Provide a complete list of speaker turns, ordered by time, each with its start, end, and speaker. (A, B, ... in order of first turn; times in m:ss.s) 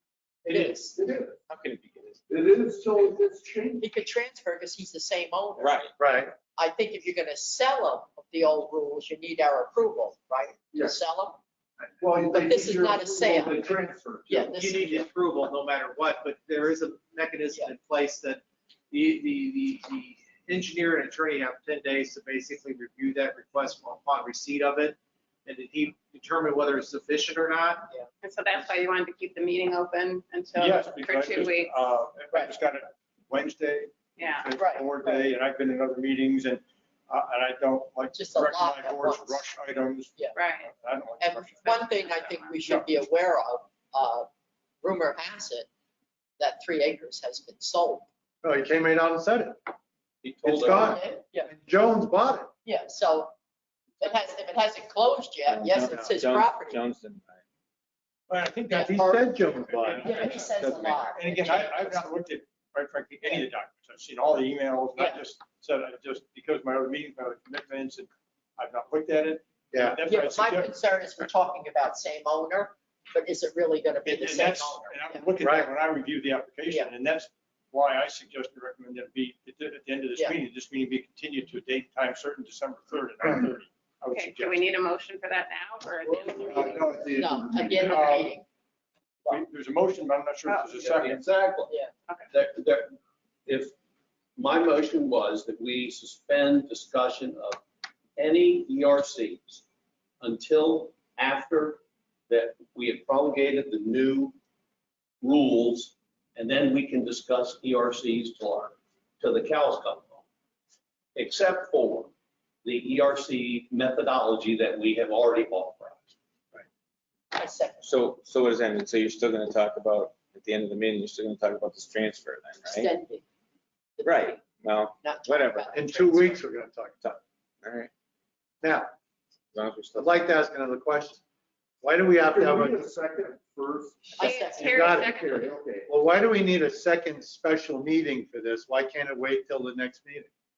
0:00.4-0:01.0 A
0:00.5-0:00.8 B
0:00.9-0:01.4 C
0:01.5-0:02.2 D
0:02.3-0:03.9 C
0:03.8-0:05.7 A
0:05.6-0:05.9 D
0:06.0-0:06.3 E
0:06.5-0:11.4 A
0:10.7-0:11.0 C
0:11.8-0:14.7 C
0:12.3-0:13.6 A
0:14.3-0:15.0 A
0:15.1-0:27.8 F
0:28.2-0:31.8 G
0:30.6-0:41.8 H
0:34.2-0:34.5 G
0:34.5-0:35.3 A
0:38.1-0:39.5 A
0:40.1-0:40.4 A
0:40.3-0:40.7 G
0:41.2-0:44.3 A
0:41.6-0:42.5 G
0:44.8-0:45.7 A
0:46.4-0:48.0 A
0:48.4-0:49.6 E
0:50.2-0:51.0 B
0:50.4-0:52.5 E
0:50.5-0:51.5 A
0:52.6-0:53.3 A
0:54.0-0:56.8 A
0:55.5-0:57.4 D
0:58.3-0:58.9 H
0:58.7-1:02.2 A
0:58.7-1:00.4 E
0:59.5-1:10.8 H
1:09.7-1:10.0 E
1:10.0-1:15.3 A
1:14.0-1:24.8 H
1:15.4-1:15.7 E
1:16.7-1:16.9 A
1:24.1-1:27.0 G
1:26.0-1:28.0 C
1:27.0-1:28.4 A
1:27.7-1:28.4 H
1:29.2-1:31.2 H
1:30.6-1:31.7 B
1:32.3-1:33.7 B
1:34.4-1:37.6 B
1:38.2-1:39.6 B
1:40.2-1:44.3 B
1:45.2-1:50.2 B
1:51.2-1:52.1 B
1:52.6-1:56.1 B
1:57.3-1:57.9 A
1:57.8-2:02.9 D
2:02.6-2:03.2 A
2:04.0-2:04.4 A
2:04.0-2:05.8 D
2:05.0-2:06.4 A
2:05.7-2:07.2 E
2:07.0-2:07.9 D
2:08.6-2:08.9 E
2:09.5-2:10.2 D
2:09.9-2:11.2 E
2:11.8-2:12.8 E
2:12.2-2:15.9 C
2:14.2-2:15.0 A
2:14.2-2:15.4 G
2:14.6-2:15.2 E
2:15.9-2:20.3 E